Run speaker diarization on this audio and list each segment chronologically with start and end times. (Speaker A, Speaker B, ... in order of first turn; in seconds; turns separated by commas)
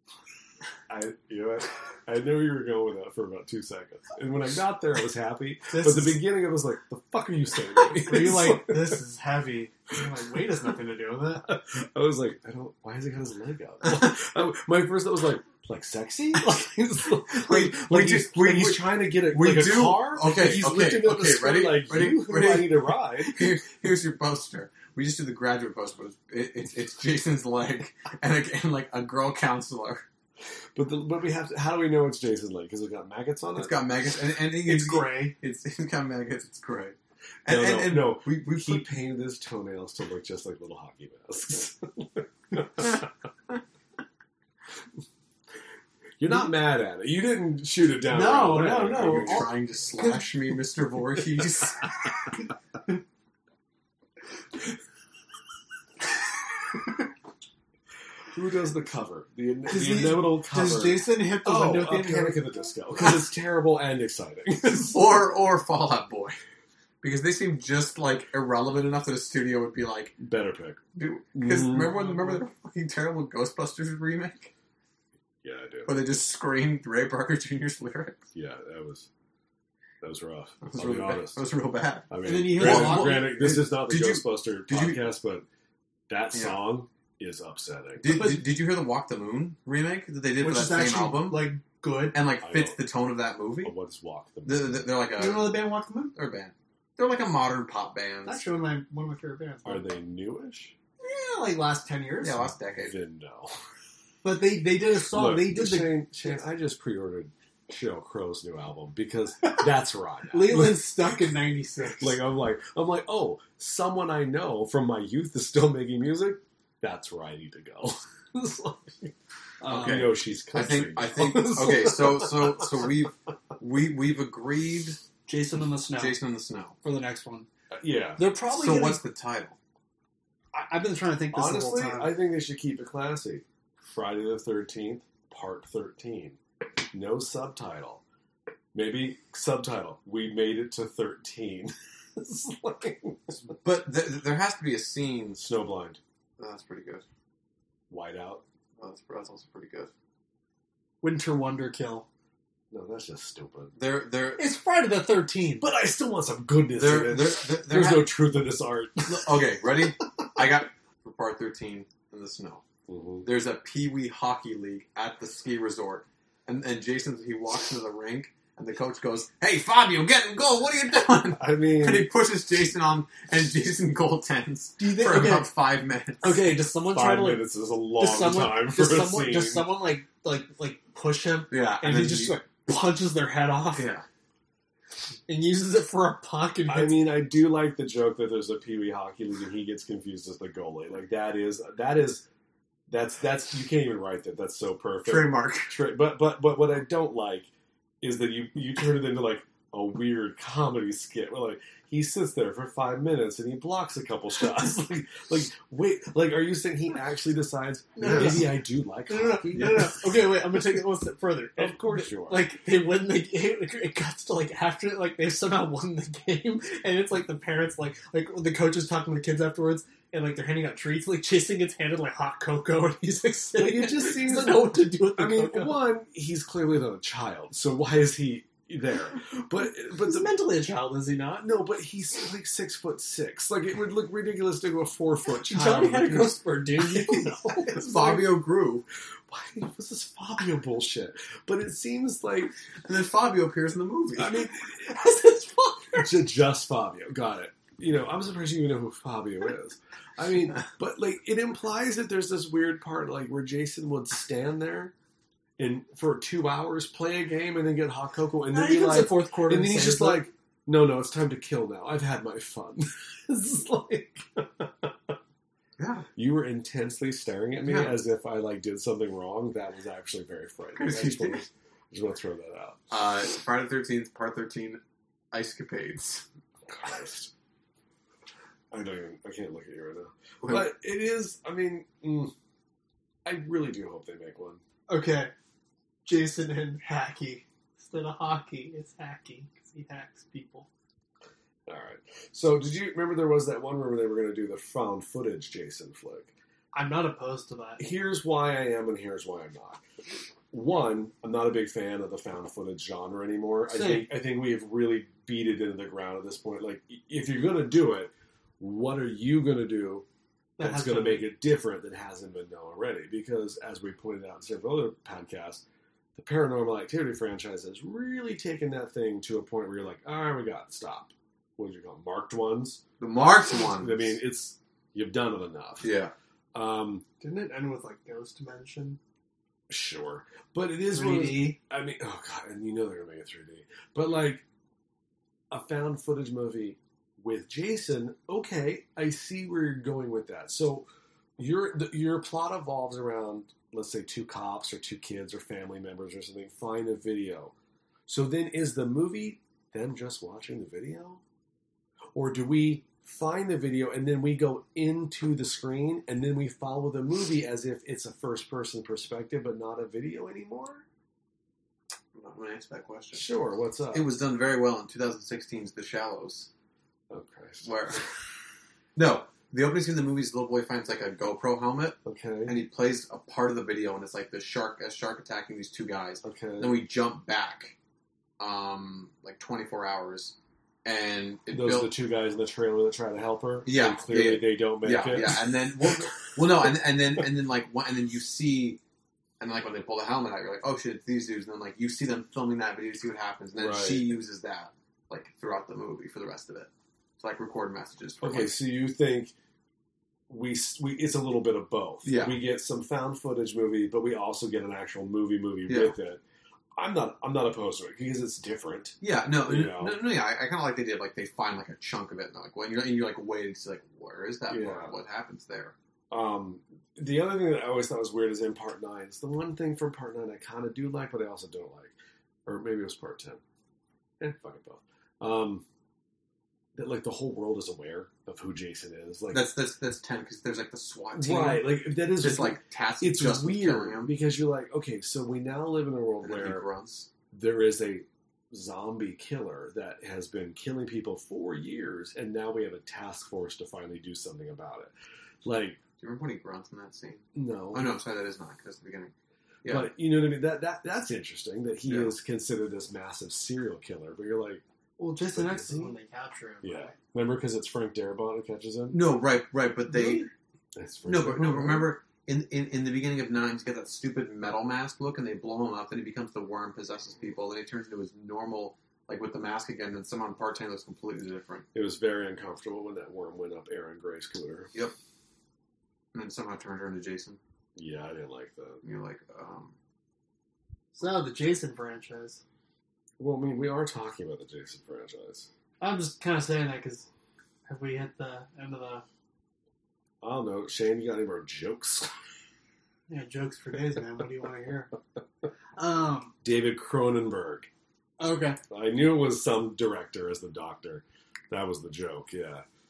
Speaker A: 0.9-9.0, Speaker B: 5.7-6.2, Speaker B: 7.9-11.5, Speaker A: 11.4-23.6, Speaker C: 17.3-30.0, Speaker A: 30.7-33.8, Speaker C: 33.5-39.0, Speaker B: 34.6-35.3, Speaker A: 37.5-43.0, Speaker A: 46.2-49.5, Speaker B: 48.1-50.3, Speaker C: 48.8-51.9, Speaker A: 58.3-65.0, Speaker B: 59.7-62.4, Speaker C: 64.8-66.4, Speaker C: 67.0-70.1, Speaker A: 70.2-70.8, Speaker C: 71.0-74.5, Speaker A: 71.3-72.0, Speaker A: 75.4-76.2, Speaker C: 75.8-78.3, Speaker A: 78.3-79.1, Speaker A: 80.0-81.4, Speaker C: 80.6-85.1, Speaker A: 82.1-85.5, Speaker B: 82.2-83.3, Speaker A: 86.1-88.3, Speaker C: 86.3-86.6, Speaker C: 88.0-91.5, Speaker B: 90.4-92.2, Speaker C: 92.1-93.7, Speaker A: 92.4-92.8, Speaker A: 93.6-94.9, Speaker C: 94.4-98.4, Speaker B: 95.2-96.1, Speaker B: 98.2-99.8, Speaker A: 99.6-100.7, Speaker B: 101.0-102.5, Speaker C: 102.2-103.0, Speaker A: 102.8-103.6, Speaker B: 104.2-106.3, Speaker A: 105.1-110.9, Speaker B: 110.3-112.2, Speaker A: 112.0-122.9, Speaker B: 119.6-120.0, Speaker C: 119.7-125.0, Speaker B: 125.3-126.2, Speaker C: 126.0-126.8, Speaker B: 126.8-127.5, Speaker A: 127.7-128.2, Speaker B: 128.2-129.0, Speaker C: 128.5-129.6, Speaker B: 130.5-132.1, Speaker A: 131.3-136.4, Speaker A: 136.9-138.0, Speaker A: 138.7-143.5, Speaker C: 143.6-145.4, Speaker A: 145.3-146.0, Speaker C: 146.4-147.0, Speaker A: 147.9-148.4, Speaker C: 148.8-149.9, Speaker B: 151.0-152.1, Speaker A: 152.7-153.7, Speaker C: 153.8-154.4, Speaker B: 154.4-155.7, Speaker A: 155.6-159.4, Speaker C: 156.7-158.1, Speaker C: 159.1-162.6, Speaker A: 162.9-163.2, Speaker C: 163.2-176.4, Speaker A: 171.3-172.1, Speaker B: 174.8-175.5, Speaker B: 176.2-183.9, Speaker A: 176.3-179.7, Speaker C: 181.5-182.4, Speaker C: 183.7-184.0, Speaker B: 185.3-187.1, Speaker A: 186.7-192.2, Speaker A: 192.9-197.5, Speaker C: 195.1-195.7, Speaker B: 195.3-195.6, Speaker A: 198.0-209.9, Speaker B: 207.9-225.8, Speaker C: 208.0-208.4, Speaker C: 209.5-209.9, Speaker A: 211.6-212.4, Speaker A: 223.5-230.3, Speaker B: 229.9-231.5, Speaker A: 231.4-237.3, Speaker B: 235.5-238.3, Speaker C: 237.7-238.8, Speaker A: 239.3-242.5, Speaker C: 242.8-244.5, Speaker A: 244.2-245.0, Speaker B: 244.8-246.1, Speaker A: 245.9-254.9, Speaker A: 255.6-265.1, Speaker B: 258.5-260.3, Speaker C: 265.8-266.1, Speaker A: 266.1-272.9, Speaker C: 267.6-268.0, Speaker C: 270.8-271.4, Speaker C: 272.9-274.8, Speaker C: 275.3-276.2, Speaker A: 276.7-277.3, Speaker A: 278.7-282.3, Speaker A: 283.2-284.6, Speaker B: 284.9-285.3, Speaker B: 286.0-290.7, Speaker A: 291.7-296.3, Speaker B: 296.7-297.8, Speaker A: 297.8-299.8, Speaker A: 300.5-310.1, Speaker B: 303.7-304.1, Speaker B: 310.6-311.2, Speaker A: 310.6-315.6, Speaker A: 316.1-322.8, Speaker C: 323.0-324.1, Speaker A: 323.7-325.9, Speaker C: 325.8-326.1, Speaker A: 326.5-327.0, Speaker B: 327.2-329.0, Speaker A: 329.7-334.4, Speaker B: 330.9-331.6, Speaker A: 335.5-347.5, Speaker A: 348.1-351.2, Speaker A: 352.1-360.8, Speaker C: 362.1-363.2, Speaker A: 363.1-364.1, Speaker C: 363.9-366.5, Speaker A: 367.1-368.0, Speaker C: 367.6-368.0, Speaker C: 368.9-377.8, Speaker A: 372.0-372.6, Speaker A: 376.2-376.8, Speaker C: 378.4-381.9, Speaker A: 381.5-386.5, Speaker C: 383.6-388.8, Speaker C: 389.4-398.5, Speaker A: 393.5-394.2, Speaker A: 398.2-399.3, Speaker A: 400.3-406.2, Speaker C: 402.0-402.4, Speaker C: 405.7-405.9, Speaker A: 406.8-410.0, Speaker C: 409.0-415.7, Speaker A: 414.5-414.9, Speaker A: 416.1-423.4, Speaker A: 424.2-425.6, Speaker A: 426.7-429.5, Speaker C: 429.3-434.1, Speaker A: 431.1-436.6, Speaker C: 436.2-437.1, Speaker A: 437.3-444.9, Speaker A: 445.4-445.8, Speaker C: 446.0-449.1, Speaker A: 447.3-447.9, Speaker C: 449.6-449.9, Speaker A: 449.7-454.6, Speaker C: 451.8-452.1, Speaker B: 455.0-456.9, Speaker A: 455.1-455.9, Speaker A: 456.6-459.0, Speaker C: 458.9-460.3, Speaker B: 459.9-460.3, Speaker A: 460.7-461.9, Speaker C: 461.0-471.6, Speaker A: 471.7-474.7, Speaker C: 476.1-477.4, Speaker A: 477.8-478.8, Speaker C: 478.8-479.7, Speaker B: 480.9-482.4, Speaker A: 483.2-485.5, Speaker B: 485.8-487.1, Speaker B: 487.7-489.0, Speaker A: 490.2-492.1, Speaker B: 493.1-494.9, Speaker B: 495.8-496.3, Speaker A: 496.4-497.7, Speaker B: 498.2-498.6, Speaker A: 498.7-502.6